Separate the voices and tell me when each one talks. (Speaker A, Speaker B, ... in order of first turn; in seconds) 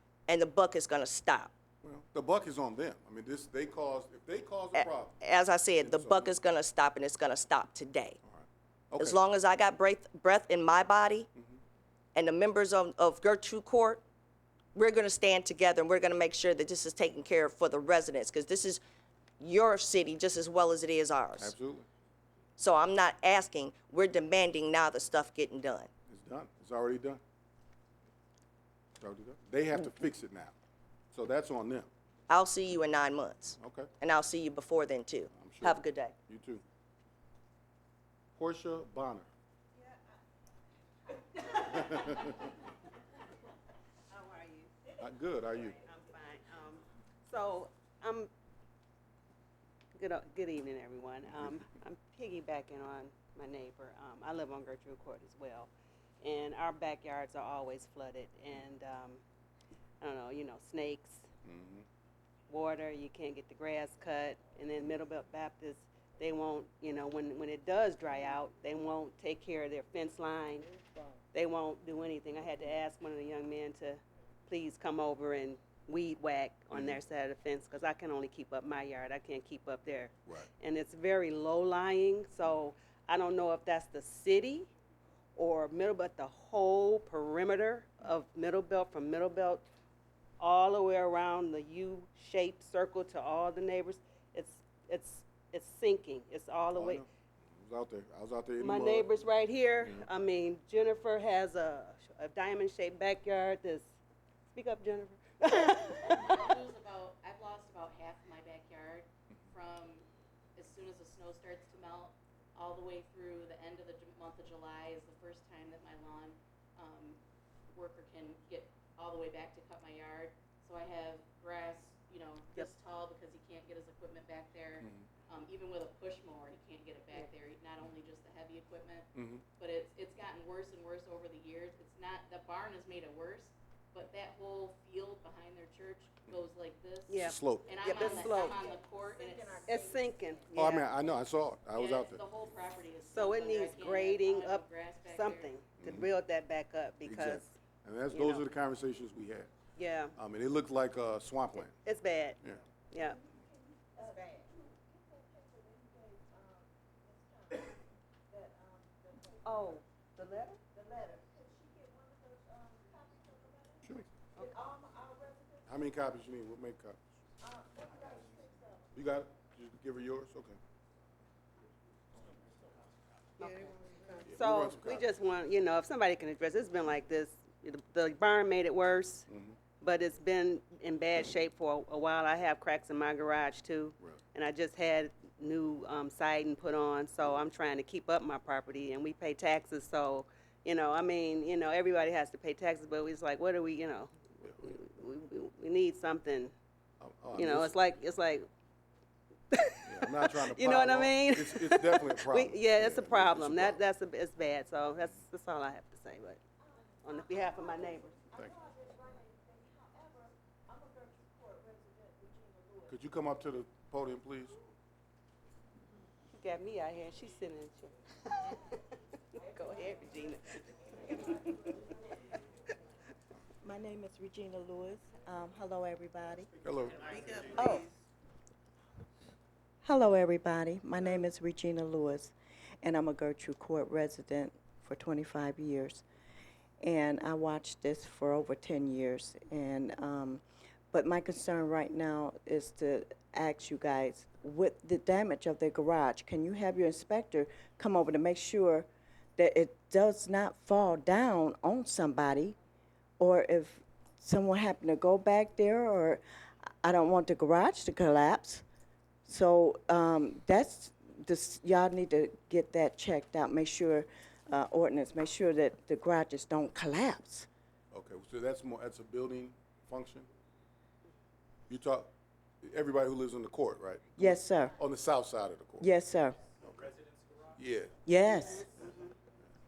Speaker A: 0.3-1.5, 4.7-8.2, 9.0-11.3, 12.2-14.0, 14.8-18.8, 19.4-21.5, 22.6-25.9, 32.3-36.1
Speaker B: 1.8-5.2, 5.8-6.4, 8.2-9.2, 21.4-21.9, 26.1-27.2, 29.0-30.5, 31.1-31.9, 33.6-33.9, 35.3-36.6, 38.4-39.3, 41.7-42.3, 45.0-45.8, 61.4-61.9, 76.7-77.0, 96.7-97.1, 97.6-99.1, 124.8-125.1, 129.2-129.4, 137.2-137.8, 140.5-142.3, 145.8-146.1, 147.0-149.5, 150.2-151.7, 165.7-167.0, 168.9-170.6, 174.3-175.1, 179.3-179.6, 197.0-197.8, 199.8-203.8, 208.3-208.6, 212.9-214.6, 226.6-227.1, 267.9-270.3, 271.7-272.1, 272.6-275.9, 277.6-278.0
Speaker C: 41.4-42.2, 44.1-44.8, 45.6-48.3, 50.0-55.7, 56.2-59.2, 60.0-61.3, 62.5-70.7, 71.3-84.7, 85.4-89.7, 90.4-97.1, 98.6-103.9, 104.5-106.4, 137.1-138.7, 139.6-140.9, 143.0-147.6, 148.1-148.5, 149.8-150.2, 151.6-153.2, 159.4-160.6, 164.3-164.6, 173.4-179.3, 179.8-196.5, 197.3-198.5, 199.5-206.4, 207.0-208.3, 216.3-218.8, 219.3-221.9, 227.1-227.9, 278.7-279.1
Speaker D: 70.7-71.2, 153.0-157.7, 158.3-159.5, 160.8-163.8, 164.7-165.6, 167.5-168.7, 208.0-212.9, 223.6-226.5, 227.5-227.9, 229.8-236.0, 236.8-240.4, 240.9-252.6, 253.2-256.2, 256.8-258.6, 259.2-267.5, 274.2-274.8, 275.8-276.4, 278.1-278.7
Speaker E: 106.1-110.0, 110.6-117.2, 117.7-139.8, 141.8-145.6